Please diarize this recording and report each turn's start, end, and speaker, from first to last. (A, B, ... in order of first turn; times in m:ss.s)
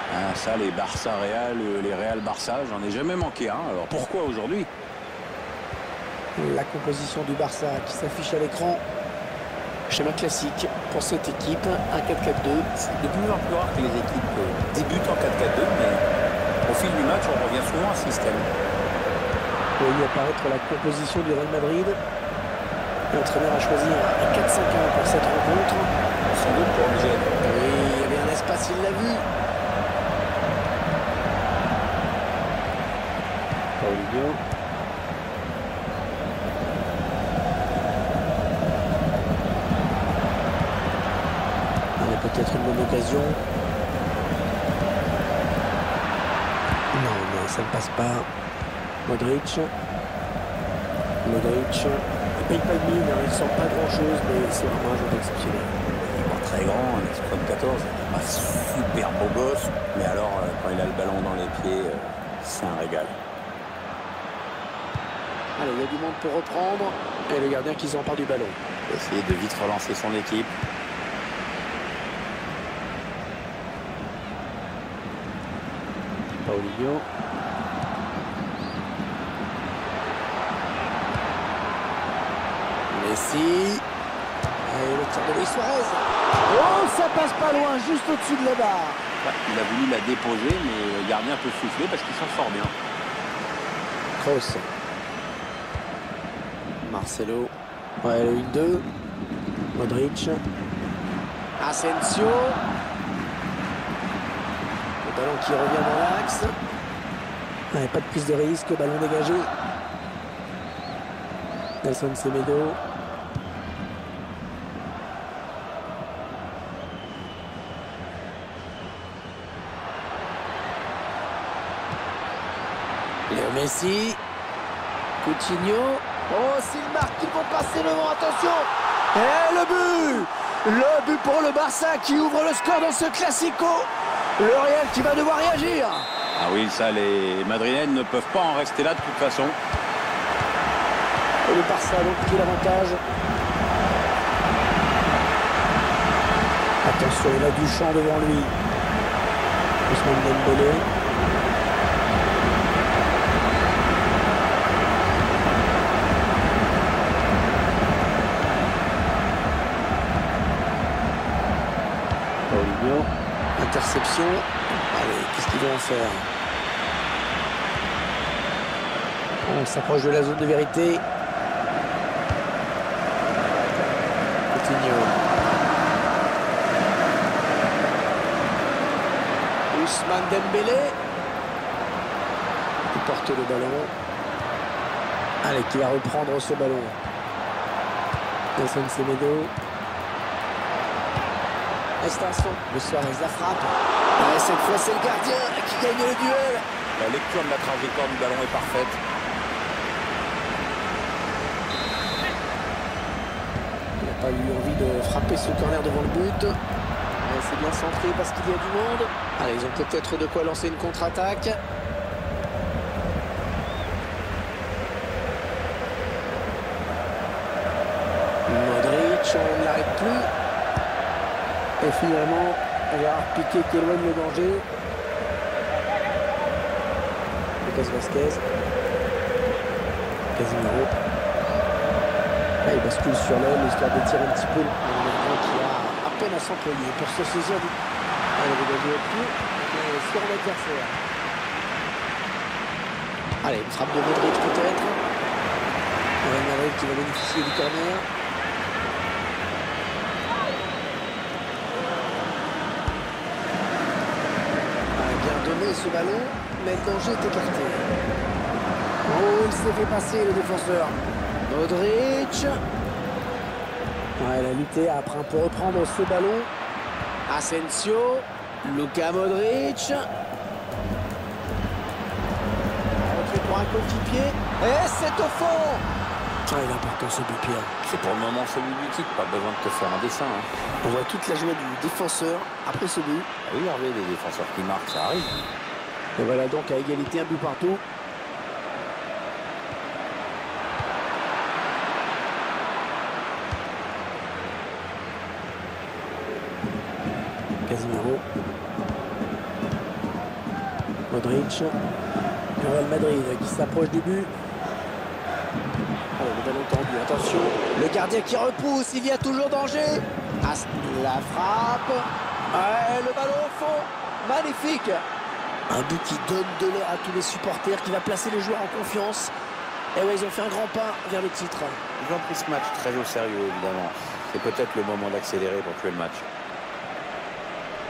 0:00.1-0:04.7 A
0:06.4-0:08.8 B
0:09.9-0:12.7 B
0:12.8-0:16.0 A
0:16.7-0:18.5 A
0:19.8-0:22.0 B
0:23.1-0:25.9 B
0:26.3-0:27.3 A
0:27.4-0:29.3 B
0:33.8-0:34.4 B
0:42.0-0:43.4 B
0:46.9-0:48.3 B
0:49.1-0:49.7 B
0:51.2-0:55.7 B
0:56.0-1:03.2 A
1:05.6-1:08.6 B
1:08.9-1:10.5 A
1:16.4-1:17.0 B
1:22.9-1:23.8 B
1:24.6-1:29.0 B
1:29.2-1:32.7 A
1:34.2-1:34.7 B
1:36.8-1:37.5 B
1:38.0-1:38.8 B
1:39.8-1:40.4 B
1:41.6-1:42.6 B
1:45.0-1:46.5 B
1:47.7-1:49.5 B
1:51.8-1:52.8 B
2:03.3-2:04.2 B
2:05.2-2:16.1 B
2:16.4-2:19.6 A
2:21.5-2:23.0 B
2:26.8-2:28.5 B
2:29.9-2:30.8 B
2:42.5-2:46.3 B
2:49.4-2:51.0 B
2:54.5-2:55.2 B
2:59.7-3:01.0 B
3:02.9-3:03.9 B
3:05.4-3:07.0 B
3:08.6-3:09.5 B
3:12.0-3:16.6 B
3:17.0-3:19.0 A
3:24.0-3:26.6 B
3:27.2-3:31.6 B
3:38.5-3:40.3 B
3:41.8-3:44.6 B
3:47.6-3:48.5 B
3:50.4-3:50.9 B
3:52.6-3:57.7 B
3:58.4-4:01.0 B
4:03.4-4:05.0 B
4:06.2-4:08.1 B
4:15.0-4:17.9 B
4:19.1-4:22.5 B
4:24.2-4:26.5 B
4:27.3-4:30.0 B
4:33.0-4:35.8 B
4:36.5-4:37.7 B
4:37.8-4:40.5 A
4:40.8-4:43.3 B
4:43.4-4:45.4 A
4:46.2-4:47.8 B
4:57.7-4:58.2 B
5:01.1-5:01.8 B
5:02.6-5:04.3 B
5:06.2-5:15.0 B
5:15.7-5:19.3 B
5:20.0-5:21.8 B
5:22.0-5:26.3 A